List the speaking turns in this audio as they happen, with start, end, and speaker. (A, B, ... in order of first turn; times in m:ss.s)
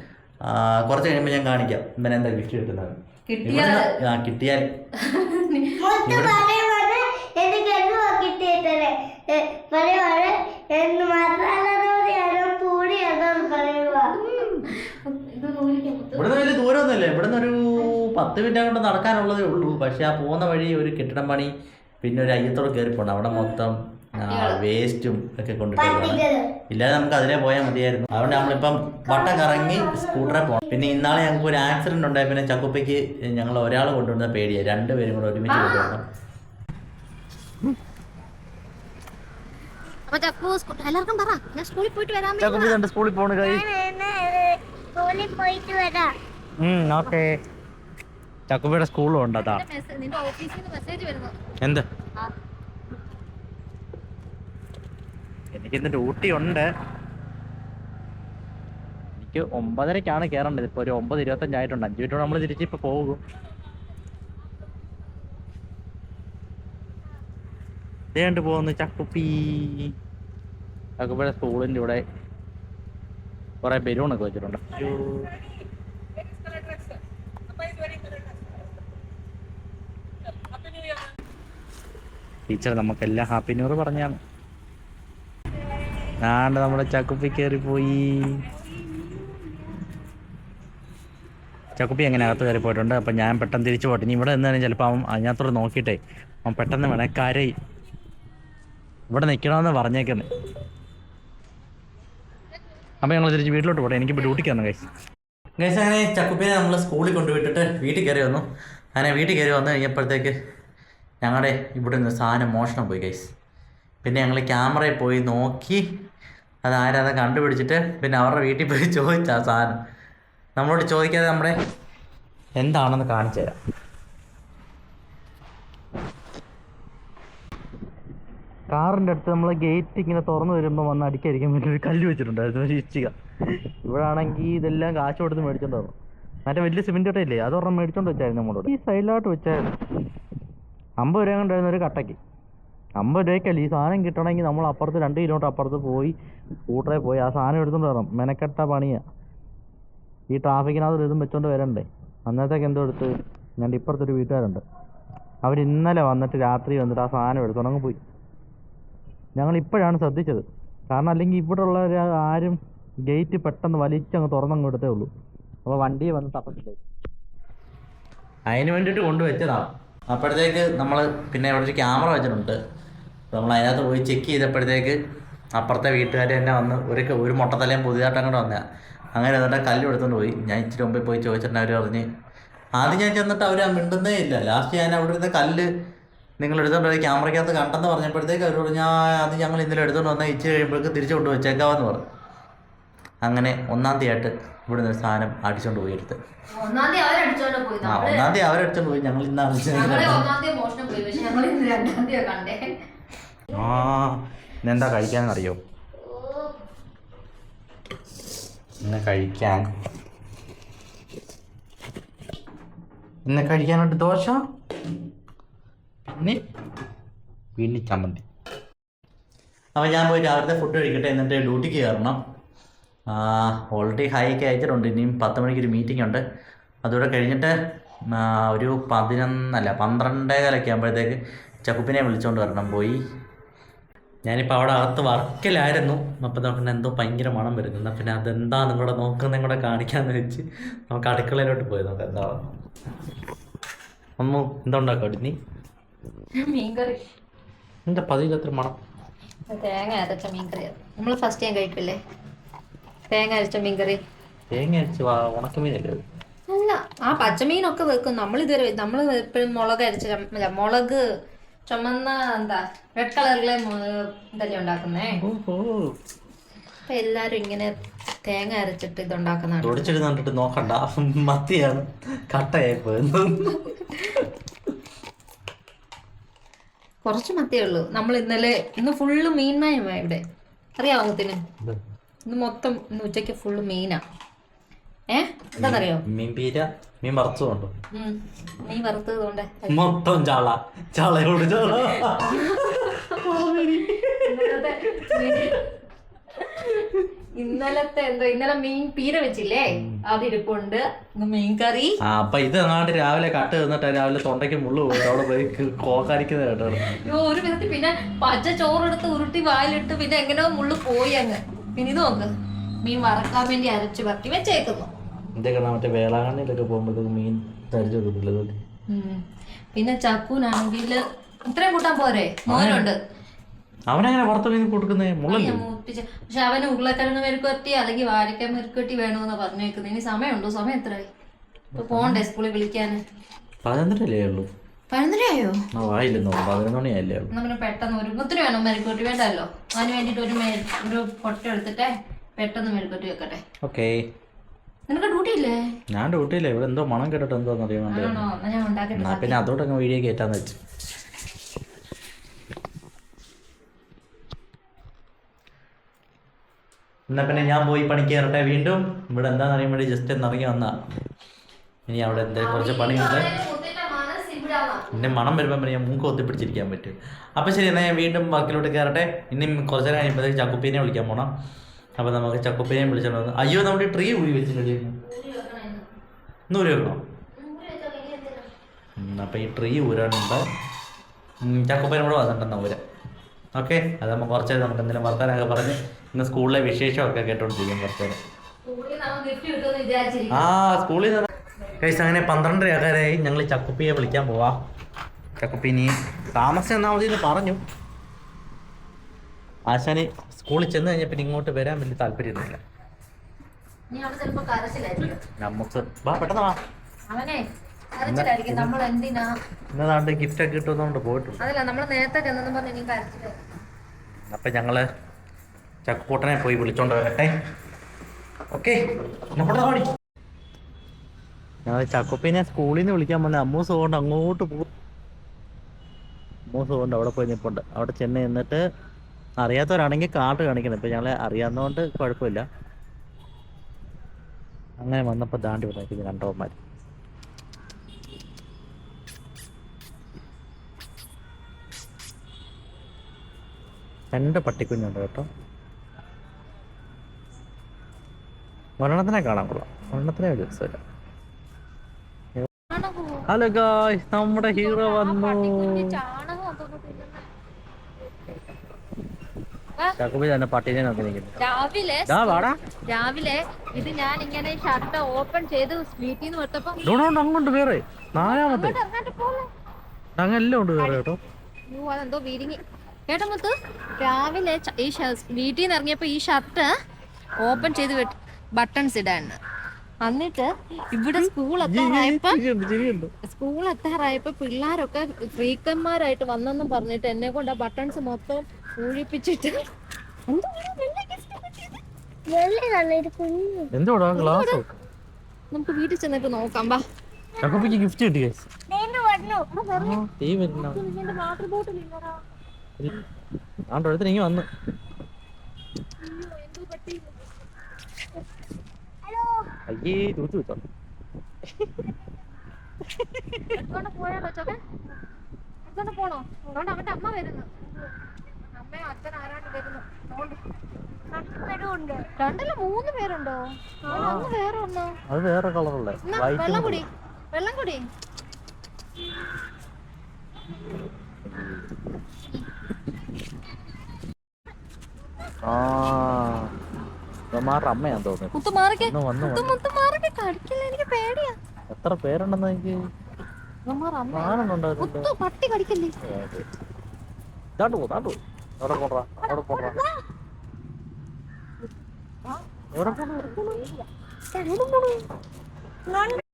0:00.5-0:04.7 A
0:03.3-0:03.9 B
0:05.0-0:05.8 B
0:05.8-0:14.1 C
0:06.1-0:06.4 A
0:13.5-0:16.4 B
0:16.2-0:36.0 A
0:24.2-0:24.6 B
0:25.8-0:26.5 C
0:28.2-0:31.0 C
0:35.5-0:35.9 B
0:40.1-0:42.8 B
0:42.4-0:43.7 A
0:43.4-0:46.1 C
0:46.6-0:47.3 A
0:48.5-0:49.6 A
0:49.4-0:51.3 B
0:55.5-0:56.6 A
0:59.2-1:03.2 A
1:08.1-1:09.9 A
1:11.0-1:12.0 A
1:13.6-1:15.3 A
1:22.5-1:24.2 A
1:26.2-1:28.4 A
1:31.8-1:37.5 A
1:39.1-1:40.3 A
1:43.0-1:44.9 A
1:45.6-1:48.4 A
1:49.0-1:50.3 A
1:51.2-1:53.3 A
1:54.0-1:55.8 A
1:56.6-1:59.8 A
2:00.6-2:01.5 A
2:02.6-2:03.6 A
2:08.7-2:13.1 A
2:13.8-2:19.7 A
2:21.0-2:22.2 A
2:23.0-2:26.2 A
2:26.7-2:29.0 A
2:30.3-2:34.6 A
2:35.4-2:38.0 A
2:39.4-2:45.1 A
2:45.7-2:46.8 A
2:48.5-2:52.6 A
2:53.3-2:55.0 A
2:55.5-2:58.6 A
2:59.2-3:02.1 A
3:02.8-3:05.7 A
3:06.4-3:12.0 A
3:13.2-3:16.2 A
3:16.5-3:18.3 B
3:17.8-3:20.3 A
3:19.7-3:22.6 B
3:23.5-3:23.9 B
3:23.5-3:25.6 A
3:26.0-3:26.6 C
3:28.8-3:29.7 A
3:33.3-3:34.4 A
3:37.6-3:38.2 A
3:39.8-3:42.2 A
3:43.1-3:46.2 A
3:46.8-3:47.5 A
3:48.1-3:53.0 A
3:54.2-4:02.5 A
4:04.2-4:05.4 A
4:06.4-4:07.0 B
4:07.9-4:08.8 A
4:09.5-4:12.0 B
4:13.1-4:14.0 B
4:14.5-4:16.0 A
4:16.5-4:21.0 B
4:21.7-4:25.2 B
4:25.2-4:26.0 A
4:26.9-4:29.9 B
4:29.6-4:34.3 A
4:37.0-4:40.2 B
4:40.8-4:41.4 B
4:42.3-4:44.0 B
4:45.1-4:46.0 B
4:45.6-4:47.7 A
4:47.9-4:49.9 B
4:49.7-4:55.6 A
4:51.9-4:53.2 B
4:54.2-4:55.7 B
4:56.4-4:56.8 B
4:57.4-5:02.0 B
4:59.7-5:00.0 A
5:02.0-5:07.0 A
5:04.9-5:05.2 B
5:07.0-5:12.3 B
5:12.8-5:14.9 B
5:15.4-5:18.6 A
5:18.9-5:19.2 B
5:19.7-5:23.0 B
5:22.5-5:22.9 A
5:23.9-5:25.6 A
5:25.2-5:31.1 B
5:31.7-5:32.2 A
5:31.8-5:33.0 B
5:33.6-5:34.5 A
5:34.9-5:35.6 B
5:35.7-5:37.3 A
5:37.3-5:43.4 B
5:43.6-5:44.0 A
5:44.9-5:45.6 B
5:45.9-5:48.3 A
5:47.9-5:49.4 B
5:49.0-5:50.6 A
5:57.1-6:00.7 A
6:01.9-6:03.3 A
6:02.3-6:05.2 B
6:04.9-6:11.3 A
6:12.0-6:14.9 A
6:15.0-6:15.9 B
6:16.5-6:17.0 A
6:17.4-6:18.5 B
6:19.0-6:20.4 A
6:21.4-6:22.8 A
6:23.6-6:28.2 A
6:28.6-6:30.5 B
6:30.3-6:34.6 A
6:35.4-6:37.6 A
6:39.7-6:42.6 A
6:43.9-6:45.2 B
6:45.4-6:46.6 A
6:47.1-6:49.3 B
6:48.1-6:48.7 A
6:49.7-6:51.4 A
6:51.4-6:53.5 B
6:54.3-6:54.9 A
6:55.8-6:57.3 A
6:58.5-6:58.8 A
6:59.3-6:59.9 A
7:01.7-7:04.7 A
7:06.5-7:08.6 A
7:09.4-7:12.4 A
7:14.8-7:16.6 A
7:24.1-7:25.3 A
7:28.8-7:30.8 A
7:32.7-7:33.2 B
7:33.3-7:35.9 A
7:34.4-7:37.3 B
7:40.0-7:41.4 A
7:41.4-7:46.9 B
7:42.1-7:42.6 A
7:46.8-7:48.8 A
7:48.2-7:49.5 B
7:50.2-7:51.2 A
7:51.7-7:56.7 B
7:57.4-7:59.4 B
8:00.0-8:02.4 B
8:01.2-8:03.1 A
8:03.2-8:09.6 B
8:10.3-8:11.8 B
8:12.3-8:13.7 C
8:13.7-8:14.7 A
8:14.1-8:14.6 B
8:15.5-8:16.8 B
8:17.4-8:18.5 A
8:17.4-8:17.7 C
8:18.7-8:19.5 C
8:19.5-8:20.0 B
8:19.7-8:20.8 A
8:20.5-8:22.2 B
8:23.7-8:24.5 A
8:26.0-8:27.2 B
8:29.1-8:29.4 C
8:29.7-8:30.6 A
8:33.0-8:33.4 A
8:33.5-8:34.6 B
8:35.7-8:37.9 B
8:38.5-8:40.4 B
8:41.1-8:42.1 C
8:42.2-8:45.0 B
8:43.8-8:44.3 A
8:45.1-8:46.8 A
8:46.0-8:47.8 B
8:51.2-8:51.7 A
8:55.4-8:56.5 A
8:57.3-8:59.6 A
8:58.3-9:01.4 B
9:01.7-9:02.8 A
9:03.7-9:05.9 B
9:04.1-9:05.1 A
9:06.0-9:06.4 A
9:07.6-9:09.8 A
9:09.6-9:09.9 C
9:12.7-9:13.6 A
9:13.4-9:13.8 B
9:14.3-9:15.0 C